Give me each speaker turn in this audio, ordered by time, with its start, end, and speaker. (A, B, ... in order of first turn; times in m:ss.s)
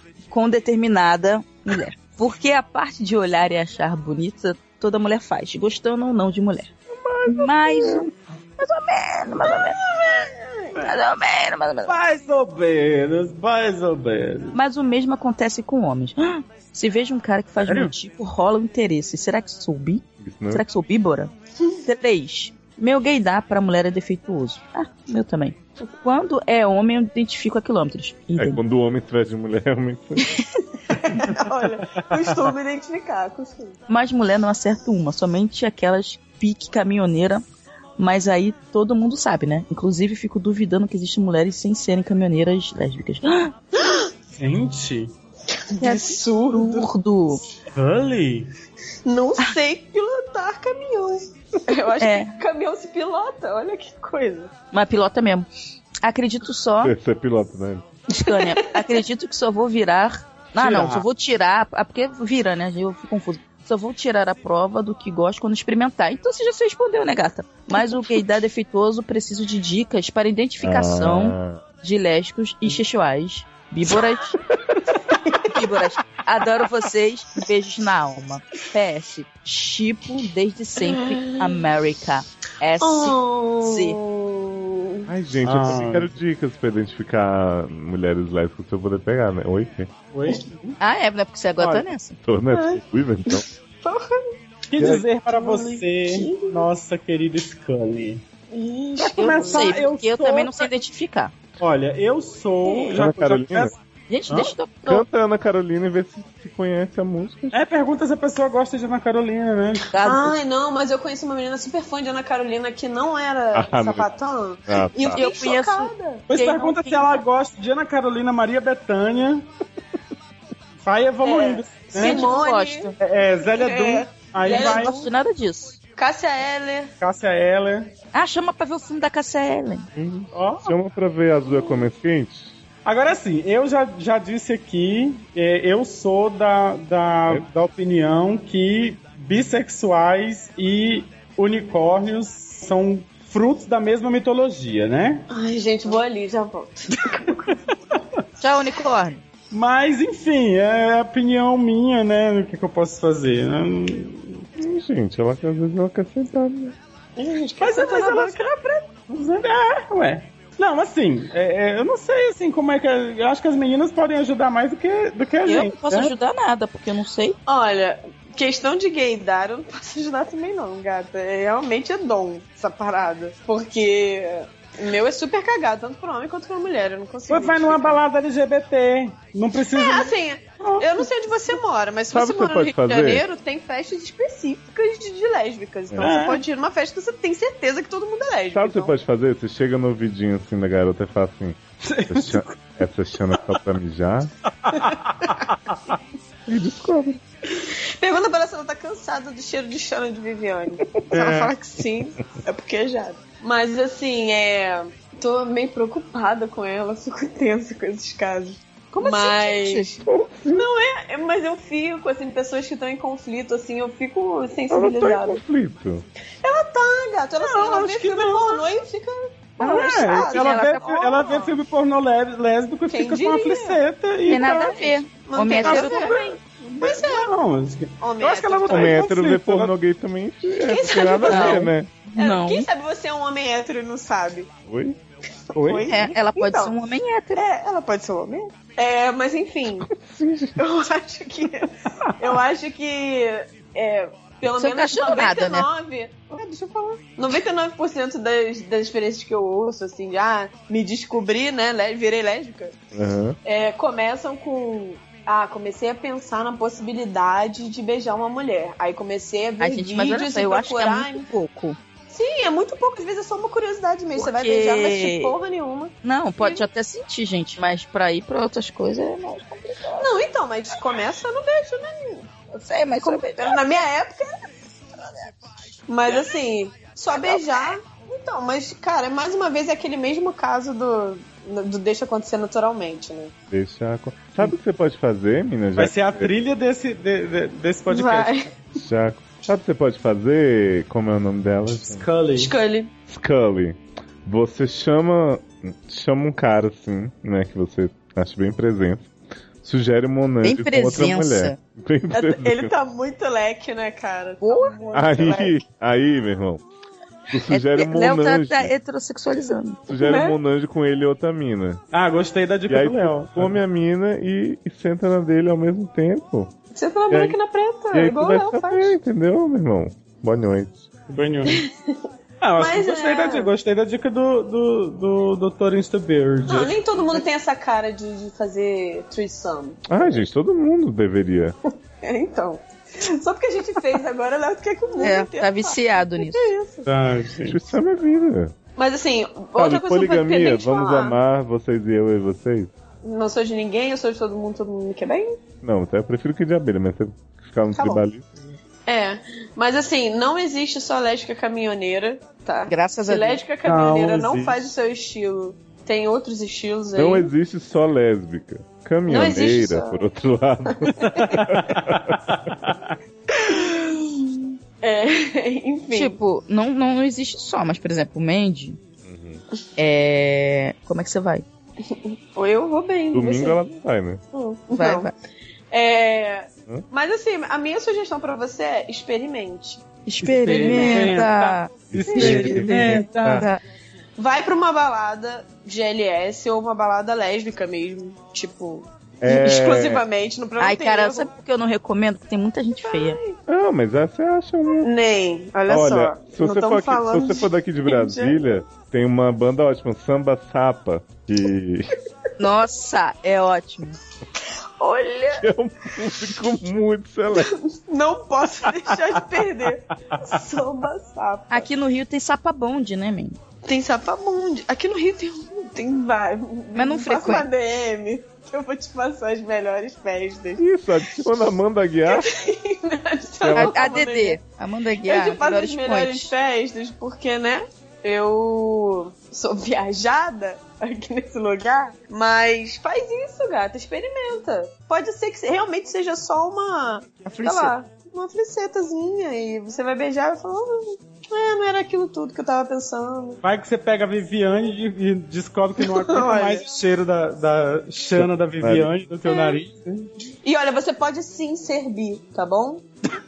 0:00.3-0:06.7 A
0:07.0-0:08.0 B
0:07.3-0:09.8 A
0:09.4-0:10.8 C
0:10.8-0:12.0 A
0:11.9-0:14.6 B
0:14.5-0:21.3 A
0:17.6-0:17.9 B
0:20.2-0:20.6 D
0:21.8-0:28.6 A
0:28.4-0:30.3 D
0:30.9-0:33.8 C
0:33.9-0:37.4 A
0:38.0-0:43.5 A
0:43.8-0:44.1 C
0:44.4-0:45.1 B
0:45.6-0:46.9 C
0:45.8-0:47.4 A
0:47.7-0:48.5 B
0:49.0-0:54.5 C
0:52.0-0:52.3 A
0:54.7-0:55.5 A
0:56.0-0:56.9 A
0:56.8-0:57.8 D
0:58.1-1:14.4 A
0:58.3-0:58.8 C
1:00.6-1:01.0 B
1:10.6-1:11.6 D
1:15.4-1:24.0 A
1:20.8-1:21.6 C
1:22.8-1:25.1 C
1:25.1-1:29.9 D
1:25.4-1:26.1 B
1:30.1-1:30.8 B
1:30.8-1:32.2 A
1:31.6-1:31.9 B
1:32.2-1:33.4 D
1:32.5-1:36.7 C
1:34.7-1:38.2 B
1:34.8-1:35.0 D
1:38.5-1:39.8 C
1:39.0-1:40.7 B
1:39.2-1:41.3 A
1:41.6-1:43.8 B
1:42.6-1:43.0 C
1:42.9-1:43.7 D
1:44.1-1:45.0 A
1:44.9-1:47.6 D
1:47.5-1:49.9 B
1:49.9-1:50.4 A
1:50.0-1:56.2 C
1:53.5-1:54.1 D
1:54.7-1:55.2 D
1:55.2-1:57.2 A
1:56.3-1:59.5 B
2:00.8-2:02.3 B
2:01.2-2:02.9 C
2:02.0-2:03.0 A
2:03.0-2:05.1 B
2:03.5-2:05.1 C
2:04.4-2:05.8 A
2:06.0-2:06.9 C
2:07.0-2:07.9 B
2:08.1-2:09.9 A
2:10.0-2:12.6 D
2:10.3-2:10.8 B
2:12.8-2:25.3 B
2:25.3-2:27.7 C
2:28.4-2:29.2 A
2:29.5-2:34.4 B
2:34.6-2:36.8 D
2:37.2-2:38.9 C
2:37.6-2:38.5 B
2:39.1-2:46.1 B
2:45.5-2:47.4 A
2:47.5-2:58.0 C
2:57.3-3:01.1 B
2:59.7-3:09.0 C
3:02.1-3:03.2 D
3:05.9-3:06.2 D
3:06.0-3:06.4 B
3:08.5-3:14.3 D
3:11.8-3:12.6 B
3:14.7-3:15.8 B
3:16.5-3:17.2 D
3:17.7-3:35.4 C
3:21.1-3:21.5 B
3:28.9-3:29.9 A
3:30.0-3:30.7 D
3:34.7-3:36.0 D
3:36.4-3:41.6 C
3:37.4-3:38.6 B
3:39.6-3:40.9 A
3:39.6-3:44.9 B
3:42.9-3:43.8 C
3:44.3-3:46.1 A
3:44.6-3:47.3 C
3:45.5-3:49.7 B
3:48.0-3:49.1 C
3:48.7-3:51.9 D
3:50.6-3:54.5 C
3:51.3-3:52.7 A
3:54.7-3:55.0 D
3:55.5-3:56.7 C
3:55.6-3:55.9 B
3:55.9-3:57.4 A
3:57.4-3:59.9 C
3:59.8-4:00.6 D
4:00.6-4:12.8 C
4:04.5-4:05.7 A
4:12.9-4:13.4 D
4:13.4-4:21.3 C
4:19.6-4:21.8 A
4:22.1-4:26.6 C
4:24.2-4:25.4 A
4:26.0-4:30.1 A
4:30.0-4:32.3 C
4:32.5-4:33.6 A
4:33.0-4:34.5 C
4:35.0-4:35.3 C
4:35.9-4:43.3 C
4:37.1-4:37.4 A
4:43.5-4:46.3 D
4:45.8-4:48.5 B
4:47.9-4:48.5 C
4:48.8-4:52.1 D
4:51.7-4:52.5 B
4:52.4-4:52.9 C
4:53.1-4:59.1 D
4:59.6-5:02.7 D
5:00.4-5:01.6 A
5:02.1-5:05.6 C
5:04.4-5:04.7 A
5:04.9-5:06.6 D
5:07.3-5:08.7 D
5:07.5-5:09.9 A
5:09.9-5:11.8 D
5:10.0-5:10.4 C
5:11.9-5:13.6 B
5:12.7-5:16.5 D
5:16.7-5:19.0 C
5:17.1-5:17.4 D
5:17.9-5:20.9 D
5:21.1-5:21.6 B
5:21.5-5:22.0 C
5:22.4-5:27.2 B
5:22.6-5:23.5 C
5:26.4-5:29.8 C
5:29.9-5:31.6 D
5:32.0-5:36.9 C
5:35.0-5:36.5 A
5:36.9-5:37.6 B
5:37.5-5:38.6 D
5:38.8-5:41.2 C
5:39.6-5:42.7 D
5:43.0-5:45.4 C
5:45.6-5:48.3 D
5:47.8-5:48.0 C
5:48.9-5:57.3 C
5:52.7-5:53.4 A
5:53.6-5:54.7 B
5:57.0-6:02.2 D
5:59.1-6:00.0 C
6:00.7-6:01.4 C
6:01.0-6:03.0 B
6:03.3-6:06.2 C
6:05.9-6:08.8 A
6:09.0-6:09.4 D
6:09.8-6:11.4 A
6:11.9-6:13.6 C
6:13.1-6:14.2 D
6:14.3-6:15.1 C
6:14.8-6:15.1 A
6:15.7-6:19.8 C
6:20.1-6:23.6 A
6:20.2-6:23.5 B
6:20.5-6:21.3 C
6:21.9-6:23.5 D
6:24.2-6:31.3 C
6:29.2-6:30.0 D
6:30.6-6:33.2 A
6:32.8-6:33.4 C
6:33.5-6:34.9 D
6:34.8-6:38.6 C
6:35.7-6:42.0 D
6:42.4-6:44.0 A
6:44.8-6:45.5 C
6:45.4-6:47.5 D
6:47.4-6:51.7 C
6:51.5-6:53.4 A
6:53.6-7:00.7 C
6:56.8-6:57.5 A
7:00.6-7:02.3 D
7:02.1-7:04.4 C
7:03.4-7:03.7 D
7:03.6-7:06.3 A
7:05.0-7:23.4 C
7:17.2-7:17.7 A
7:23.4-7:30.1 B
7:25.8-7:26.6 C
7:28.1-7:28.9 D
7:29.2-7:29.6 C
7:30.4-7:32.8 C